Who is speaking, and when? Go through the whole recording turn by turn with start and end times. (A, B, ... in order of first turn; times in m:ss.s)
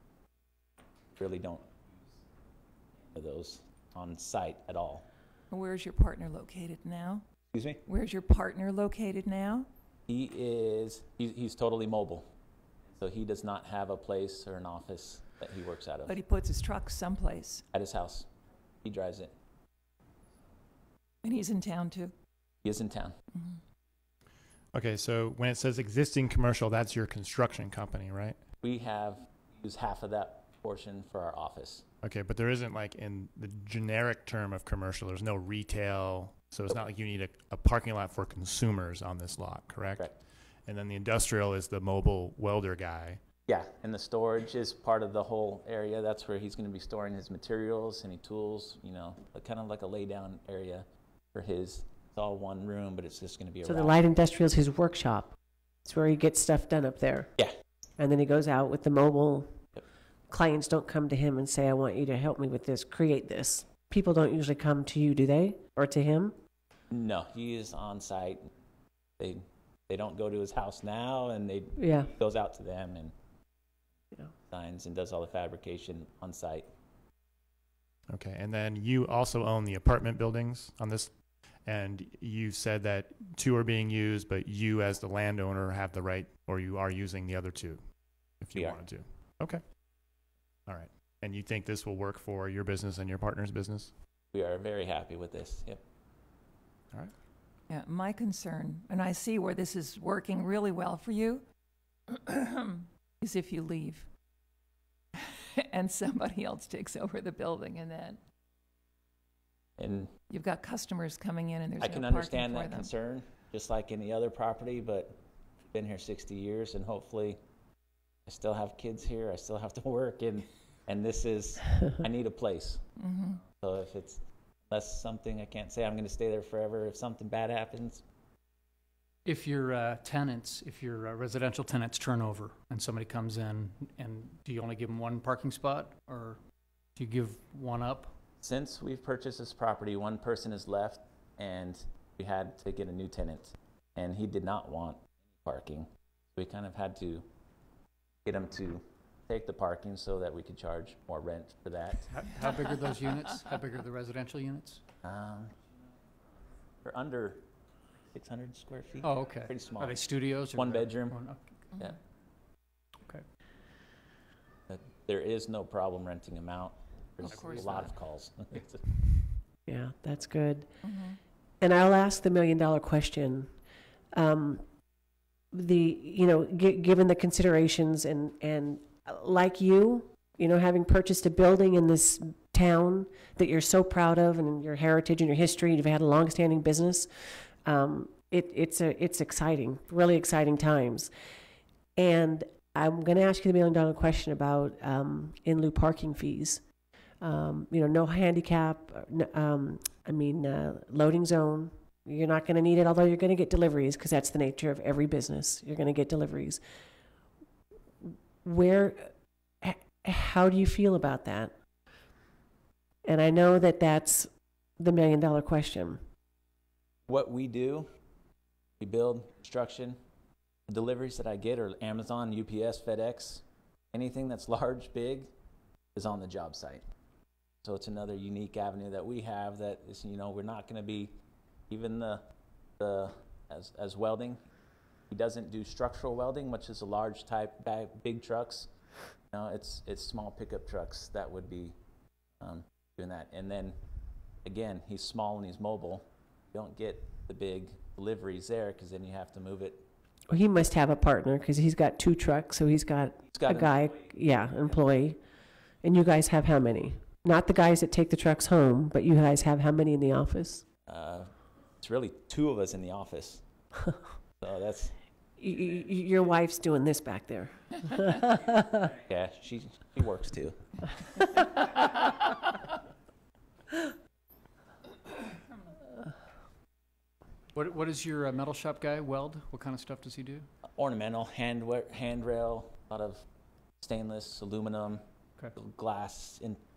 0:01.2-0:01.7 A
0:03.1-0:05.0 A
0:05.5-0:07.2 B
0:07.5-0:07.8 A
0:07.8-0:09.7 B
0:10.1-0:12.2 A
0:13.0-0:16.2 A
0:16.0-0:17.6 B
0:17.7-0:18.3 A
0:18.8-0:19.3 A
0:21.2-0:22.1 B
0:22.6-0:23.1 A
0:24.7-0:28.4 C
0:28.6-0:31.8 A
0:32.0-0:40.1 C
0:40.7-0:43.2 C
0:43.5-0:54.0 A
0:53.6-0:57.3 D
0:58.0-0:59.5 D
1:00.3-1:06.3 D
1:06.9-1:08.4 A
1:09.2-1:13.1 A
1:11.8-1:12.1 D
1:14.5-1:16.7 A
1:18.1-1:21.1 C
1:21.7-1:27.8 C
1:28.4-1:29.6 C
1:30.7-1:33.9 C
1:34.3-1:35.8 A
1:37.7-1:41.4 B
1:42.1-1:44.1 B
1:45.1-1:48.2 B
1:49.8-1:50.1 A
1:50.3-1:52.9 B
1:51.8-1:55.2 A
1:55.7-1:57.4 A
1:58.2-2:02.8 A
2:03.0-2:03.4 B
2:03.4-2:08.0 A
2:09.2-2:16.4 E
2:17.0-2:18.1 E
2:18.4-2:27.3 A
2:28.2-2:32.1 A
2:32.1-2:34.8 E
2:35.0-2:35.5 A
2:36.8-2:37.5 A
2:38.1-2:40.0 A
2:39.0-2:41.5 E
2:40.6-2:41.2 A
2:44.7-2:49.0 A
2:47.2-2:47.9 E
2:47.4-2:47.9 B
2:49.7-2:50.7 D
2:50.8-2:51.2 B
2:51.6-2:53.5 D
2:54.1-2:54.6 D
2:55.5-3:07.1 D
3:07.6-3:11.1 D
3:12.0-3:16.6 D
3:17.2-3:26.6 D
3:28.4-3:29.1 D
3:29.6-3:31.5 D
3:33.0-3:36.0 D
3:37.1-3:37.9 A
3:38.8-3:40.0 A
3:40.7-3:45.3 A
3:46.0-3:46.8 A
3:47.6-3:51.1 A
3:51.7-3:52.2 A
3:52.8-3:54.4 A
3:55.1-3:58.7 A
3:59.3-4:01.8 A
4:02.4-4:03.8 A
4:04.4-4:09.8 A
4:10.3-4:15.2 D
4:13.3-4:13.7 A
4:15.8-4:20.6 D
4:20.9-4:23.4 A
4:24.4-4:24.9 A
4:25.4-4:28.9 D
4:29.0-4:30.6 A
4:37.5-4:40.5 E
4:40.8-4:43.2 A
4:43.8-4:45.0 A
4:45.5-4:46.6 A